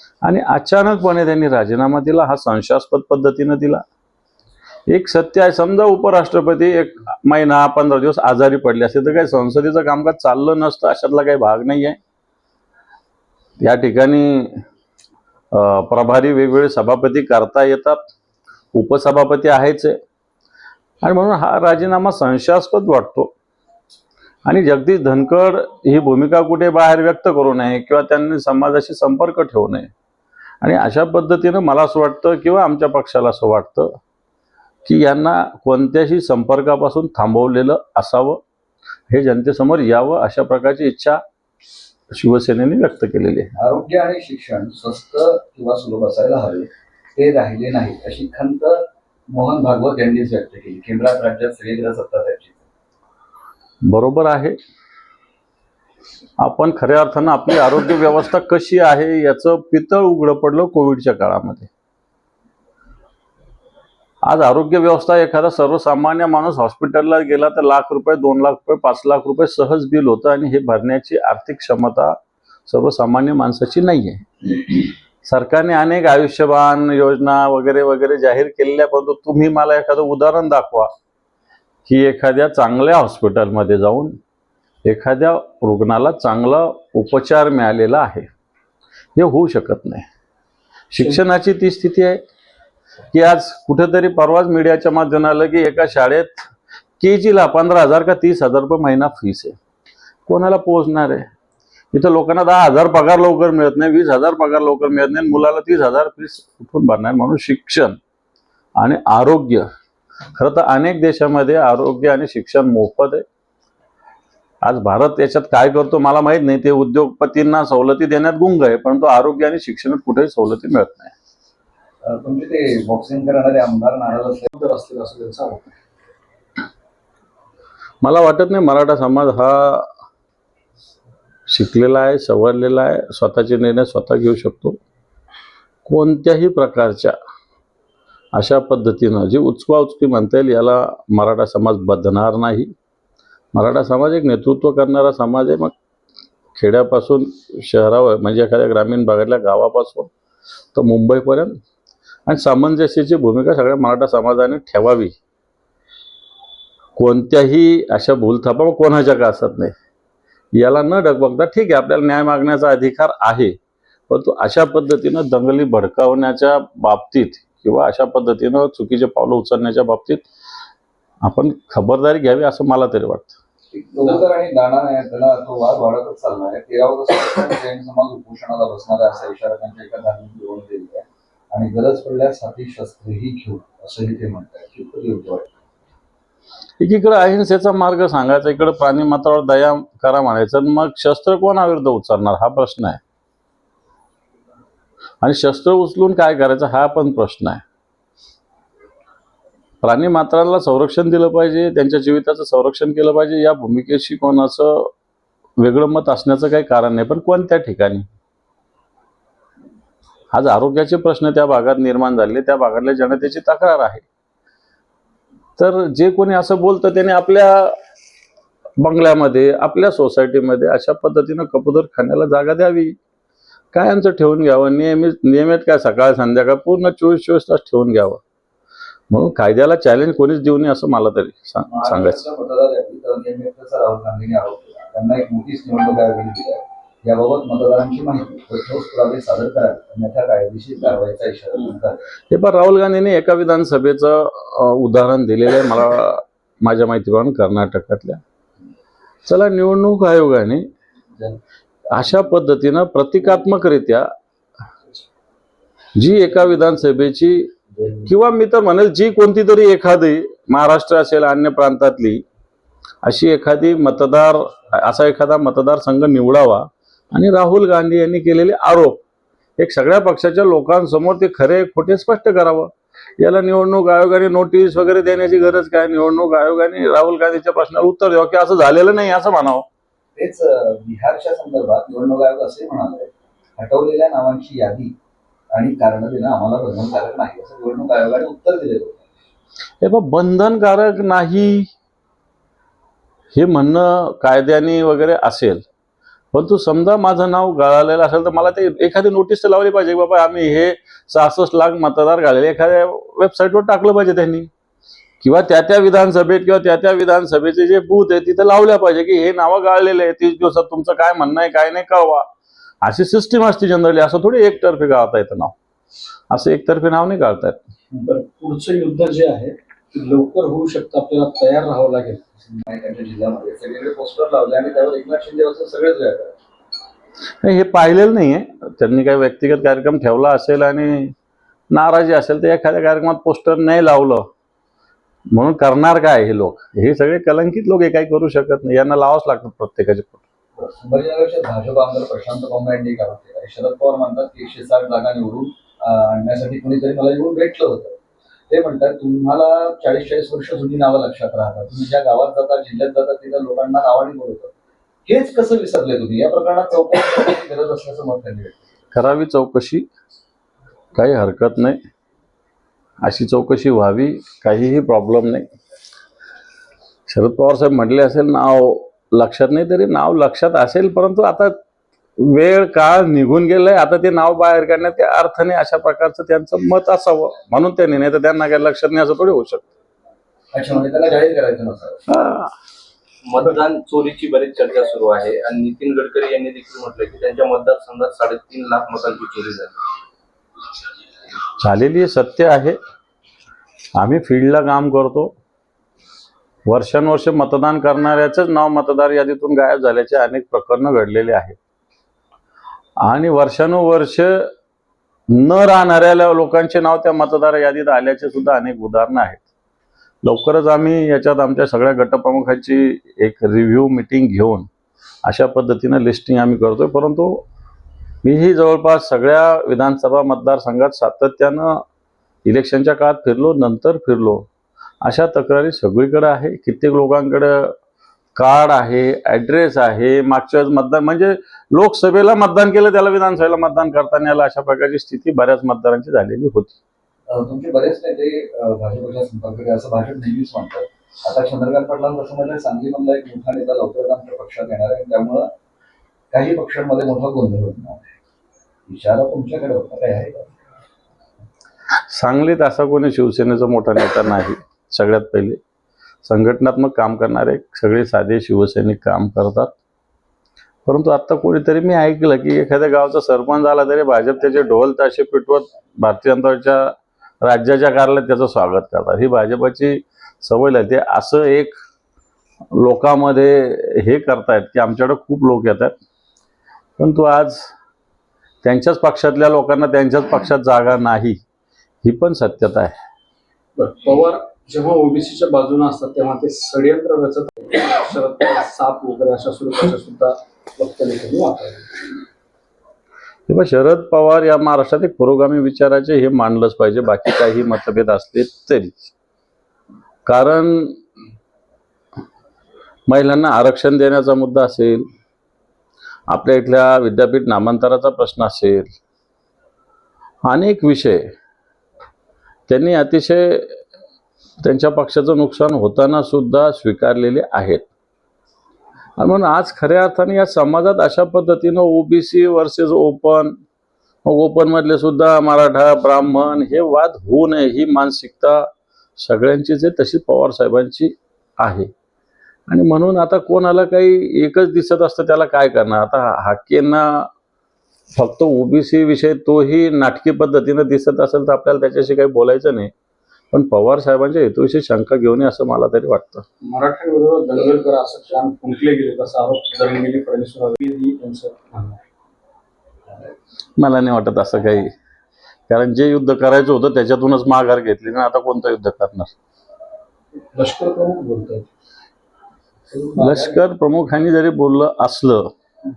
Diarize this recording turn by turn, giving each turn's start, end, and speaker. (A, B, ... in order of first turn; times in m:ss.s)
0:00.2-0:03.8 A
0:04.9-0:12.0 A
0:13.6-0:14.5 A
0:15.5-0:18.0 A
0:18.7-0:20.0 A
0:21.0-0:23.3 A
0:24.4-0:29.9 A
0:30.6-0:33.9 A
0:34.8-0:38.4 A
0:39.1-0:41.2 A
0:42.1-0:43.5 A
0:43.6-0:52.6 B
0:53.9-0:54.6 A
0:56.4-1:01.7 A
1:04.2-1:12.2 A
1:12.7-1:14.2 A
1:15.2-1:20.9 A
1:21.9-1:24.1 A
1:24.8-1:28.2 A
1:29.2-1:30.0 A
1:30.9-1:32.2 A
1:33.1-1:36.5 A
1:37.0-1:39.5 A
1:40.3-1:41.3 A
1:41.9-1:48.0 A
1:48.8-1:49.6 A
1:50.3-1:53.2 A
1:54.6-2:01.1 A
2:02.0-2:04.5 B
2:04.5-2:05.7 C
2:08.0-2:09.9 A
2:11.5-2:14.8 A
2:15.8-2:17.1 A
2:18.3-2:22.7 A
2:23.5-2:25.7 A
2:26.6-2:30.1 A
2:30.7-2:31.5 A
2:32.3-2:35.1 A
2:37.0-2:39.7 A
2:40.5-2:43.6 A
2:44.1-2:50.2 A
2:51.2-2:53.3 A
2:53.7-3:05.5 B
3:06.8-3:13.0 A
3:15.2-3:17.6 A
3:19.8-3:24.9 A
3:25.6-3:28.0 A
3:30.3-3:34.0 A
3:35.6-3:37.7 A
3:38.8-3:43.0 A
3:43.7-3:48.2 A
3:49.1-3:52.2 A
3:51.7-4:02.0 B
4:02.3-4:08.2 A
4:09.2-4:10.6 A
4:11.9-4:14.1 A
4:16.0-4:17.5 A
4:18.0-4:22.2 A
4:23.0-4:29.0 A
4:29.6-4:39.6 A
4:40.2-4:44.9 B
4:45.5-4:49.0 B
4:49.8-4:51.7 A
4:53.3-4:55.6 A
4:56.3-5:04.5 A
5:05.2-5:12.3 A
5:12.8-5:15.5 A
5:16.3-5:17.6 A
5:18.0-5:22.2 C
5:22.4-5:26.3 B
5:27.4-5:31.1 A
5:31.7-5:34.3 A
5:35.3-5:40.2 A
5:40.6-5:48.0 B
5:48.5-5:54.5 B
5:55.0-5:58.6 B
5:58.9-5:59.9 A
6:00.9-6:01.8 A
6:03.0-6:05.4 A
6:07.1-6:11.5 A
6:12.2-6:19.6 A
6:20.5-6:22.0 B
6:22.1-6:22.5 A
6:23.2-6:29.8 D
6:31.6-6:32.8 A
6:34.0-6:35.3 A
6:36.6-6:41.6 A
6:43.0-6:44.4 A
6:45.3-6:49.4 A
6:50.2-6:54.7 A
6:55.2-6:57.4 A
6:58.2-7:01.8 A
7:02.4-7:04.5 A
7:05.0-7:07.7 A
7:08.3-7:16.8 A
7:17.3-7:25.5 B
7:26.3-7:28.1 B
7:28.9-7:30.6 B
7:32.1-7:35.6 A
7:36.2-7:39.7 A
7:40.8-7:51.7 A
7:52.7-7:55.9 A
7:57.0-7:57.7 A
7:58.6-8:01.4 A
8:02.0-8:02.9 A
8:03.8-8:11.9 C
8:13.5-8:19.0 A
8:20.2-8:21.0 A
8:23.1-8:25.0 A
8:26.3-8:28.9 A
8:30.4-8:31.2 A
8:32.7-8:33.8 A
8:34.6-8:37.9 A
8:39.2-8:43.5 A
8:44.2-8:51.9 A
8:52.7-8:57.3 A
8:58.1-9:02.9 A
9:03.5-9:06.4 A
9:06.6-9:12.0 C
9:13.8-9:14.9 A
9:15.7-9:19.3 A
9:20.5-9:21.7 C
9:22.9-9:23.6 B
9:23.2-9:25.5 A